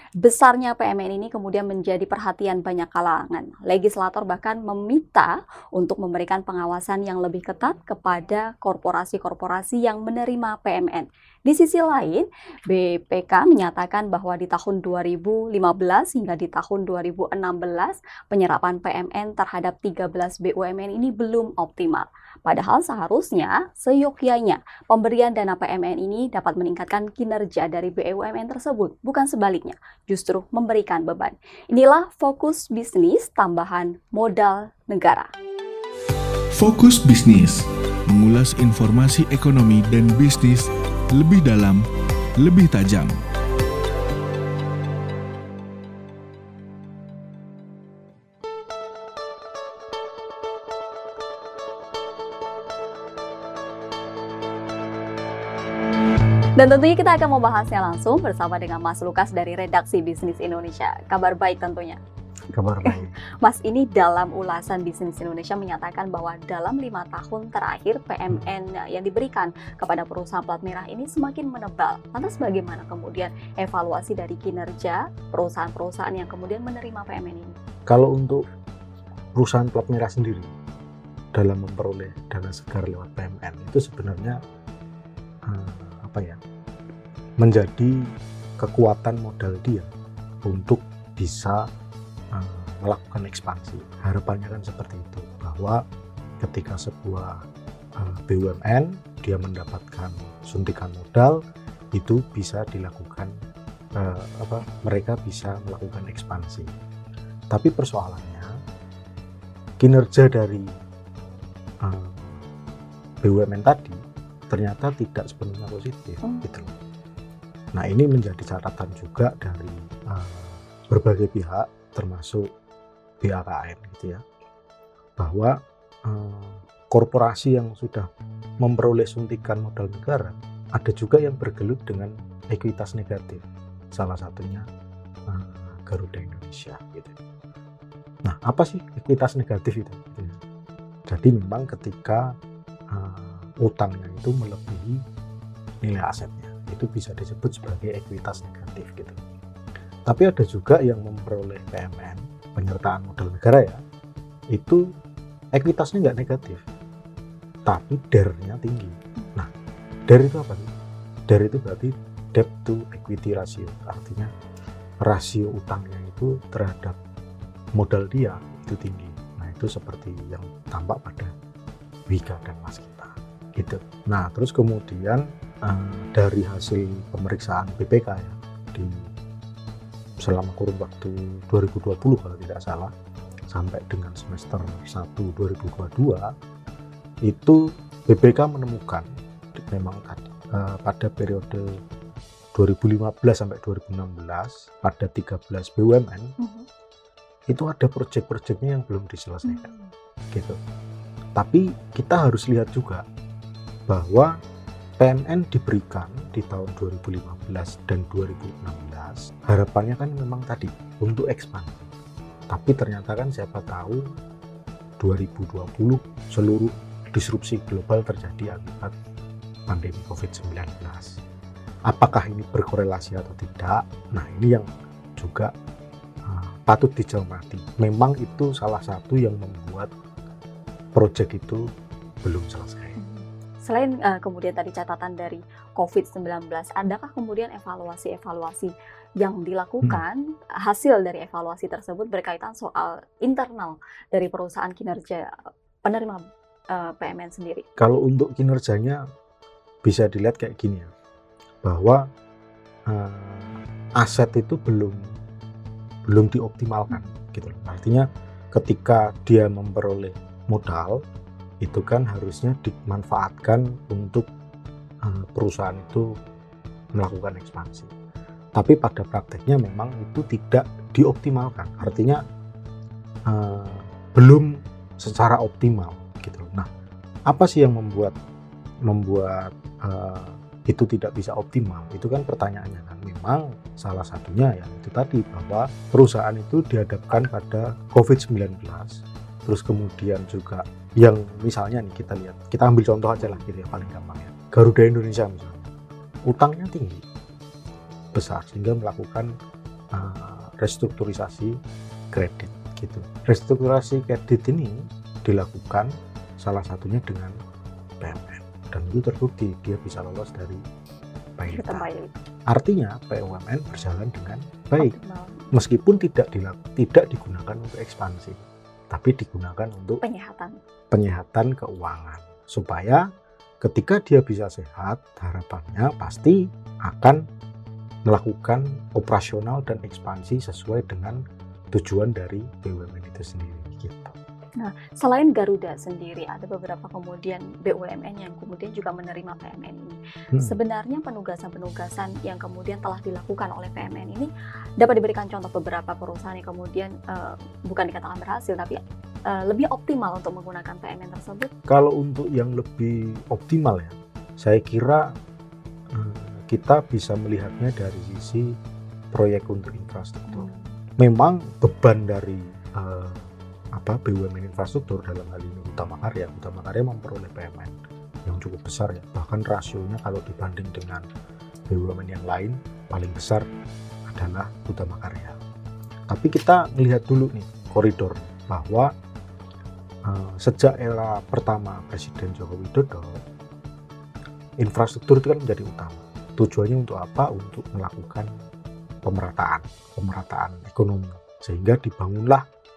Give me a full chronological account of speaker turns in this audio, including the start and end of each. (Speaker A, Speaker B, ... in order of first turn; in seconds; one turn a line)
Speaker A: 0.2-35.3
Speaker B: 36.5-41.8
Speaker B: 42.4-43.2
Speaker A: 56.6-62.0
Speaker C: 62.5-63.1
Speaker A: 62.9-77.5
Speaker C: 77.9-78.4
Speaker C: 79.3-80.5
Speaker C: 81.3-84.4
Speaker C: 85.5-86.4
Speaker C: 87.4-89.9
Speaker C: 90.5-91.7
Speaker C: 92.3-95.8
Speaker C: 96.4-97.4
Speaker C: 98.0-101.4
Speaker C: 101.9-103.3
Speaker C: 104.0-106.7
Speaker C: 107.5-108.5
Speaker C: 109.8-110.7
Speaker C: 111.8-112.4
Speaker C: 113.2-116.7
Speaker A: 116.2-116.7
Speaker C: 117.7-122.5
Speaker C: 123.2-124.2
Speaker C: 125.2-125.5
Speaker C: 126.1-128.1
Speaker C: 128.6-134.6
Speaker C: 135.3-137.2
Speaker C: 138.2-140.4
Speaker C: 141.1-142.3
Speaker C: 142.9-145.0
Speaker C: 145.8-149.2
Speaker C: 150.1-153.8
Speaker C: 154.5-154.8
Speaker C: 155.5-156.6
Speaker C: 157.7-159.5
Speaker C: 160.1-160.7
Speaker C: 161.3-164.3
Speaker C: 165.0-167.0
Speaker C: 167.8-171.3
Speaker C: 172.1-179.1
Speaker C: 180.2-182.9
Speaker C: 183.5-186.3
Speaker C: 187.3-191.6
Speaker C: 192.6-196.3
Speaker A: 196.4-196.7
Speaker C: 197.5-199.7
Speaker A: 199.4-199.9
Speaker C: 201.4-203.0
Speaker C: 203.9-204.3
Speaker C: 205.0-211.9
Speaker C: 212.5-214.0
Speaker C: 215.0-218.9
Speaker C: 219.7-221.2
Speaker C: 221.9-224.7
Speaker C: 225.2-225.5
Speaker C: 226.3-229.9
Speaker C: 231.0-231.6
Speaker C: 232.2-233.0
Speaker A: 233.0-245.3
Speaker A: 245.8-247.7
Speaker C: 247.8-249.0
Speaker C: 249.8-250.9
Speaker C: 251.6-252.0
Speaker C: 252.9-255.0
Speaker C: 256.1-261.0
Speaker C: 261.6-264.3
Speaker C: 265.1-266.1
Speaker C: 267.0-267.9
Speaker C: 268.6-272.2
Speaker C: 273.3-276.7
Speaker C: 277.3-278.1
Speaker C: 278.9-295.7
Speaker C: 296.3-297.0
Speaker C: 298.1-299.3
Speaker C: 299.9-301.6
Speaker C: 302.1-307.4
Speaker C: 308.0-310.6
Speaker C: 311.4-311.9
Speaker A: 311.5-312.1
Speaker C: 312.5-314.9
Speaker A: 314.8-315.6
Speaker C: 315.5-318.4
Speaker C: 318.9-320.0
Speaker A: 320.0-320.6
Speaker C: 320.9-323.0
Speaker C: 323.6-327.2
Speaker C: 328.1-331.2
Speaker C: 331.7-334.1
Speaker A: 334.6-351.5
Speaker C: 351.7-355.1
Speaker C: 355.9-358.5
Speaker C: 359.1-360.5
Speaker A: 360.3-360.8
Speaker C: 361.0-367.8
Speaker C: 368.3-371.0
Speaker C: 371.7-373.4
Speaker C: 374.1-375.4
Speaker C: 376.1-378.9
Speaker C: 380.1-383.2
Speaker C: 384.6-388.3
Speaker C: 389.0-392.4